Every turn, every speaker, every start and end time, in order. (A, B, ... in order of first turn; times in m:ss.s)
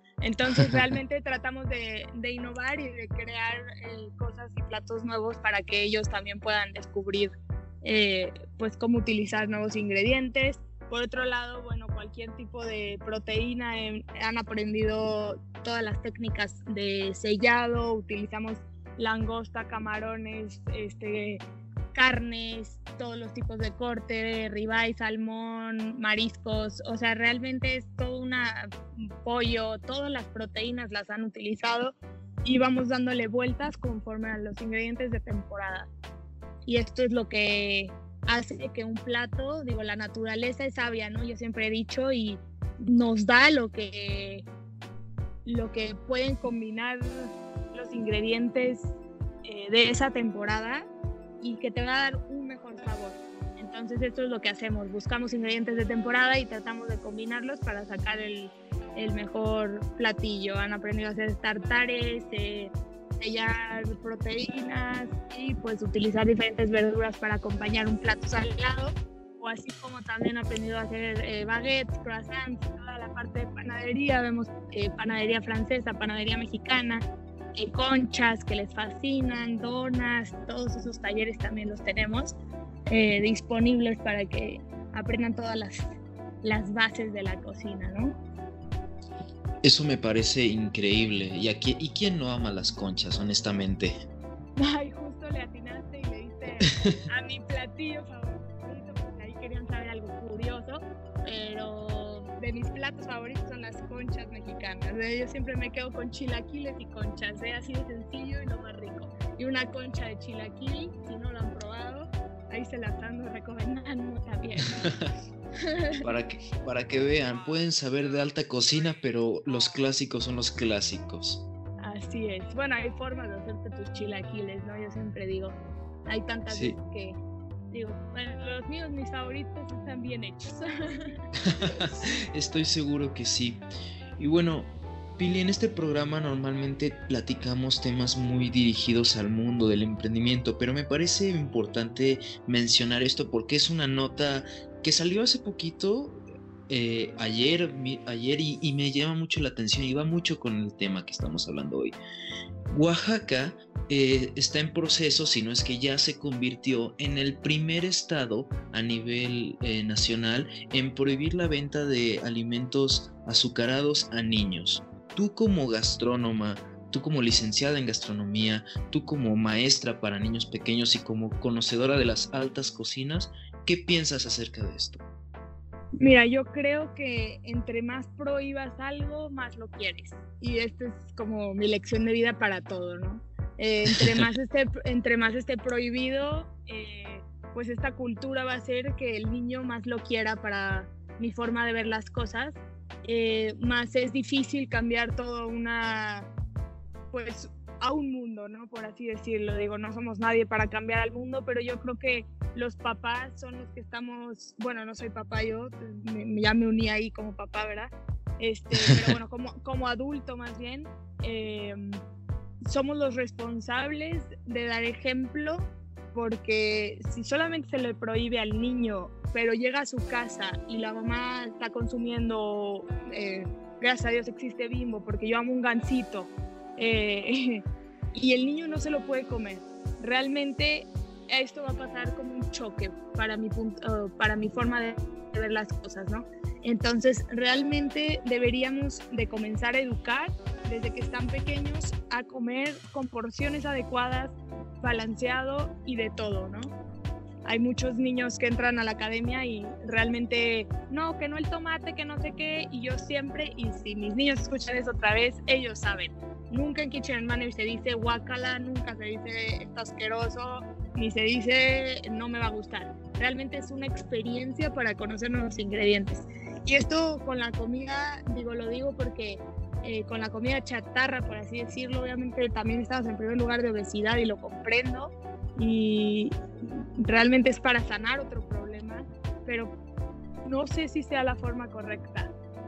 0:00.2-0:21.4 A
0:21.9-0:35.9 A
0:36.6-0:44.4 A
0:45.4-0:48.9 A
0:49.4-0:50.9 A
0:51.4-1:22.3 A
1:22.9-1:28.2 A
1:29.6-1:34.0 B
1:34.6-1:54.9 A
1:54.7-1:55.1 B
1:55.6-1:56.0 A
1:56.0-2:01.4 B
2:01.8-2:07.2 A
2:06.5-2:06.8 B
2:07.7-2:11.2 A
2:11.4-2:13.6 B
2:14.2-2:32.0 B
2:32.7-2:55.0 B
2:56.0-3:16.3 A
3:17.1-3:32.0 A
3:32.6-4:06.7 A
4:07.4-4:39.7 A
4:40.4-4:42.3 A